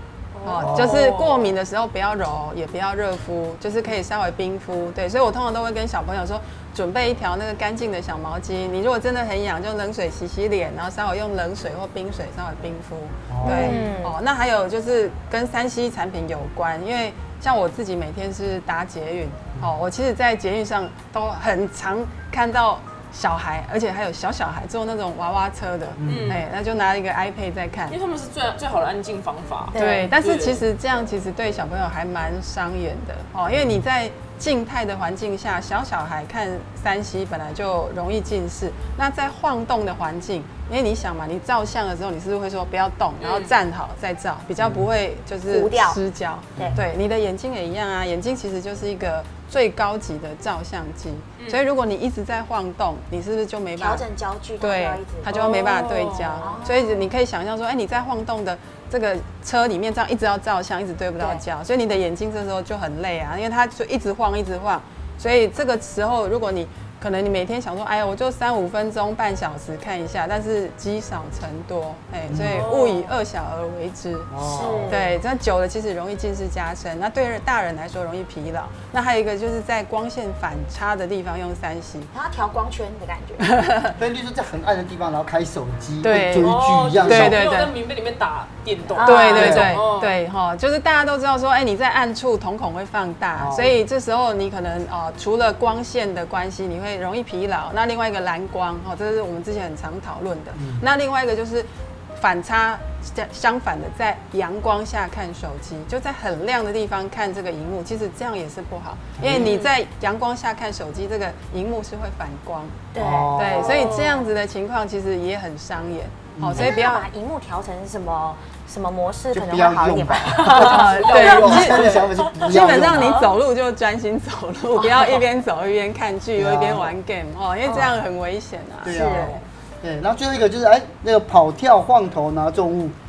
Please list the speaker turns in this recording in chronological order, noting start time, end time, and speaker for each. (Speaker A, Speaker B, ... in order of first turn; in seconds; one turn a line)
Speaker A: 0.3-1.5
Speaker B: 0.4-28.0
Speaker C: 0.6-1.0
Speaker C: 13.3-13.8
Speaker D: 13.4-14.2
Speaker C: 26.0-26.4
Speaker A: 26.0-26.4
Speaker A: 27.9-30.6
Speaker D: 29.7-30.1
Speaker B: 29.7-54.0
Speaker C: 33.5-33.8
Speaker A: 43.2-43.5
Speaker C: 44.6-44.9
Speaker D: 45.5-46.0
Speaker C: 46.5-46.8
Speaker D: 53.8-55.3
Speaker B: 54.6-74.3
Speaker A: 55.3-56.6
Speaker D: 56.4-57.1
Speaker C: 72.3-72.7
Speaker A: 72.4-73.1
Speaker C: 74.3-75.0
Speaker D: 74.4-75.2
Speaker B: 74.9-82.1
Speaker D: 82.1-83.6
Speaker B: 83.4-83.9
Speaker C: 84.0-87.4
Speaker B: 86.0-87.7
Speaker A: 86.4-90.2
Speaker D: 88.8-89.8
Speaker B: 89.0-112.8
Speaker C: 89.3-89.8
Speaker C: 93.4-93.8
Speaker C: 100.5-100.8
Speaker C: 109.2-109.6
Speaker A: 109.3-109.7
Speaker D: 112.9-113.9
Speaker C: 113.0-113.9
Speaker B: 113.3-117.1
Speaker A: 113.6-114.3
Speaker C: 116.3-116.7
Speaker D: 116.5-122.1
Speaker C: 119.3-123.2
Speaker A: 120.3-122.4
Speaker B: 120.5-129.4
Speaker D: 122.9-123.3
Speaker D: 124.8-125.2
Speaker C: 126.4-126.9
Speaker D: 127.7-128.0
Speaker C: 128.8-132.9
Speaker D: 128.8-129.3